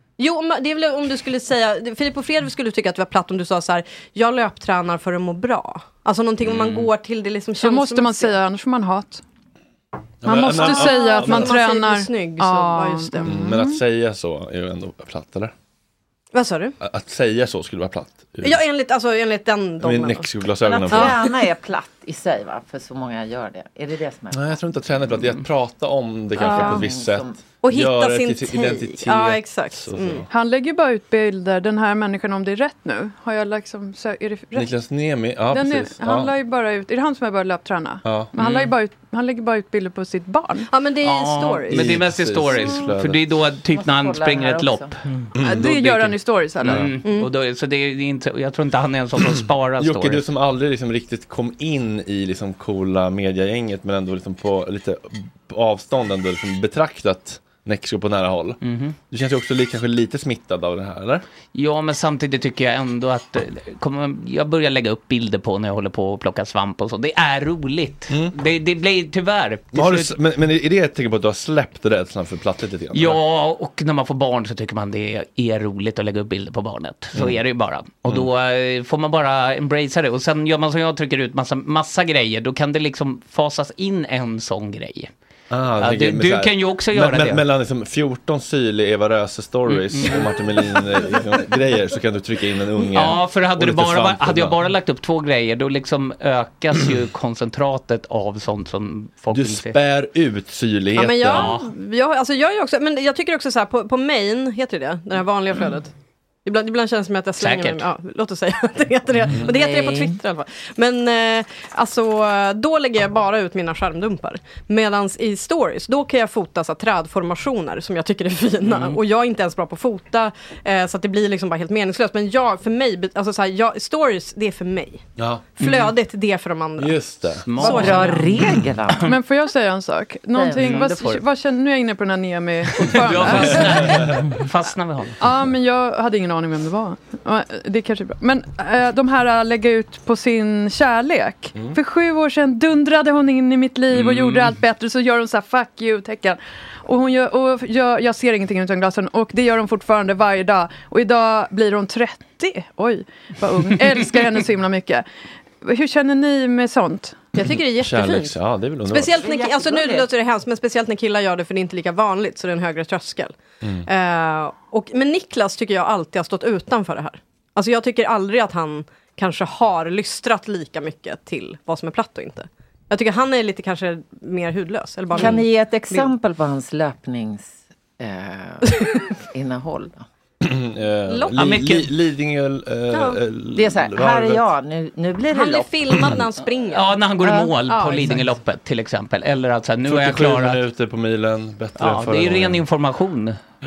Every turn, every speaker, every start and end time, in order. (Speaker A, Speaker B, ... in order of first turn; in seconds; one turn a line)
Speaker A: 0.2-8.3
Speaker B: 6.5-6.9
Speaker C: 7.6-9.2
Speaker D: 10.2-11.6
Speaker C: 10.2-13.8
Speaker A: 10.6-13.3
Speaker D: 13.2-15.5
Speaker A: 16.3-16.8
Speaker D: 16.8-18.6
Speaker A: 18.4-20.3
Speaker D: 19.8-21.3
Speaker E: 20.6-24.6
Speaker A: 20.9-21.3
Speaker D: 24.3-30.3
Speaker B: 25.1-25.4
Speaker E: 26.4-27.4
Speaker C: 26.4-26.9
Speaker A: 27.6-30.2
Speaker C: 30.3-34.7
Speaker D: 34.5-36.3
Speaker C: 35.5-40.7
Speaker D: 38.0-38.3
Speaker B: 38.4-38.8
Speaker A: 40.7-41.8
Speaker B: 41.0-45.0
Speaker D: 41.7-43.2
Speaker E: 43.7-44.9
Speaker D: 45.4-45.9
Speaker C: 45.5-47.0
Speaker B: 45.6-50.3
Speaker D: 46.6-46.9
Speaker A: 47.0-47.3
Speaker D: 49.2-58.6
Speaker B: 58.6-59.0
Speaker D: 59.1-61.2
Speaker B: 61.5-70.2
Speaker D: 68.1-68.3
Speaker D: 69.7-73.2
Speaker B: 72.9-85.1
Speaker D: 85.5-94.6
Speaker B: 85.8-87.5
Speaker B: 89.7-90.3
Speaker B: 92.9-99.8
Speaker D: 99.3-101.5
Speaker A: 101.0-105.9
Speaker B: 101.2-101.7
Speaker A: 106.5-125.1
Speaker B: 107.4-107.9
Speaker D: 109.3-109.6
Speaker E: 109.5-110.2
Speaker B: 118.7-119.0
Speaker D: 125.2-125.6
Speaker B: 125.6-125.9
Speaker A: 125.6-126.9
Speaker D: 126.8-127.5
Speaker B: 127.4-129.2
Speaker A: 127.6-128.2
Speaker E: 127.6-129.1
Speaker C: 129.1-134.1
Speaker E: 130.3-131.2
Speaker B: 130.5-131.2
Speaker B: 132.7-135.2
Speaker D: 133.6-134.0
Speaker C: 135.2-155.1
Speaker B: 143.9-144.6
Speaker C: 155.6-157.3
Speaker A: 157.3-158.3
Speaker D: 157.7-159.2
Speaker A: 158.9-176.1
Speaker E: 159.1-160.1
Speaker E: 175.1-180.1
Speaker D: 180.4-184.5
Speaker B: 181.3-181.9
Speaker A: 182.9-183.2
Speaker E: 183.5-185.9
Speaker A: 185.3-186.9
Speaker B: 186.5-190.6
Speaker E: 187.2-188.2
Speaker D: 189.8-192.6
Speaker B: 191.8-193.4